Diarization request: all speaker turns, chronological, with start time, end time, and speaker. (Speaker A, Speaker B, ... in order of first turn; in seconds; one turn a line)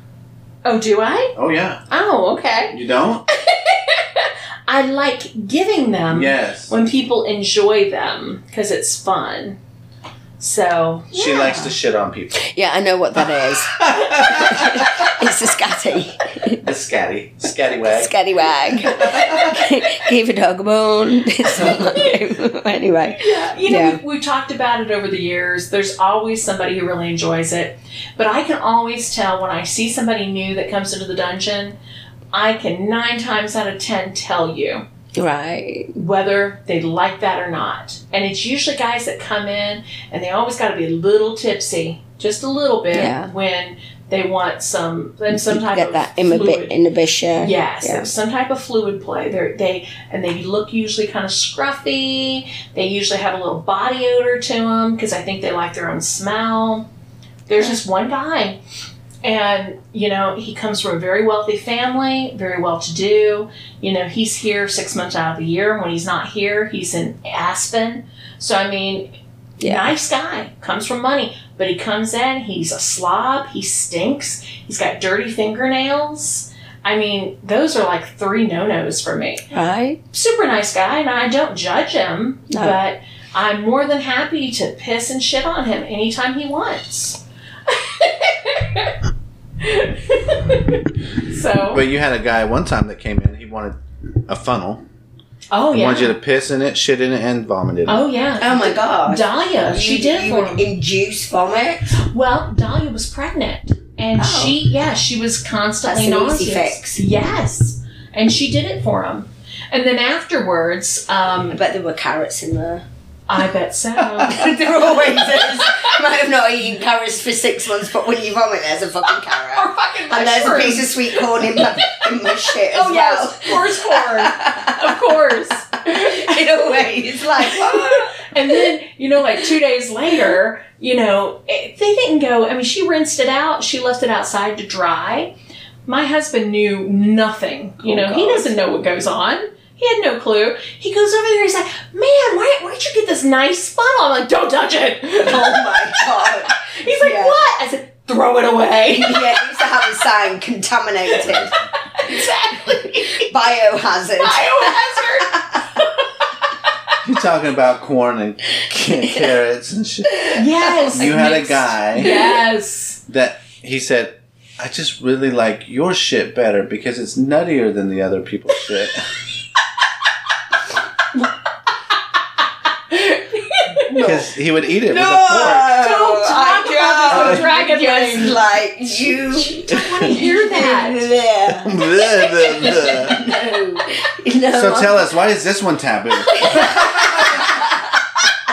Speaker A: 0.7-1.3
Speaker B: 1.4-1.8
Speaker A: 1.9-2.8
Speaker B: 2.7-3.3
Speaker A: 3.4-9.6
Speaker B: 6.1-6.7
Speaker A: 10.4-11.7
Speaker B: 11.1-12.5
Speaker C: 12.4-16.6
Speaker B: 13.7-15.2
Speaker B: 16.6-19.6
Speaker C: 17.9-24.0
Speaker A: 21.5-22.2
Speaker A: 23.1-31.8
Speaker A: 32.3-34.9
Speaker C: 35.2-35.9
Speaker A: 35.9-46.7
Speaker C: 42.9-43.3
Speaker C: 45.3-48.1
Speaker A: 47.4-56.9
Speaker A: 57.5-58.6
Speaker A: 59.2-69.1
Speaker C: 69.6-69.9
Speaker A: 69.6-79.5
Speaker C: 79.5-80.0
Speaker A: 80.1-89.0
Speaker C: 82.5-82.8
Speaker A: 89.6-91.8
Speaker B: 91.7-93.8
Speaker B: 94.3-94.8
Speaker A: 95.5-96.2
Speaker B: 95.7-98.1
Speaker A: 97.9-100.7
Speaker C: 98.4-101.9
Speaker A: 101.9-111.6
Speaker C: 104.2-104.6
Speaker C: 105.8-107.0
Speaker C: 111.5-112.8
Speaker A: 113.3-114.5
Speaker C: 114.2-125.2
Speaker A: 115.6-115.9
Speaker A: 119.5-126.8
Speaker C: 125.8-128.7
Speaker A: 127.4-135.3
Speaker A: 135.9-149.8
Speaker B: 137.9-138.4
Speaker C: 145.2-147.4
Speaker C: 149.0-151.5
Speaker A: 151.1-153.3
Speaker C: 153.1-155.6
Speaker A: 154.2-156.1
Speaker B: 157.0-160.4
Speaker C: 160.2-161.1
Speaker A: 160.3-163.0
Speaker B: 160.9-162.3
Speaker C: 162.0-162.3
Speaker B: 163.1-169.1
Speaker A: 172.9-174.2
Speaker C: 173.9-185.1
Speaker B: 173.9-175.8
Speaker A: 175.3-178.5
Speaker B: 177.1-177.4
Speaker A: 179.2-181.1
Speaker B: 181.6-183.2
Speaker B: 184.5-187.6
Speaker C: 186.3-187.8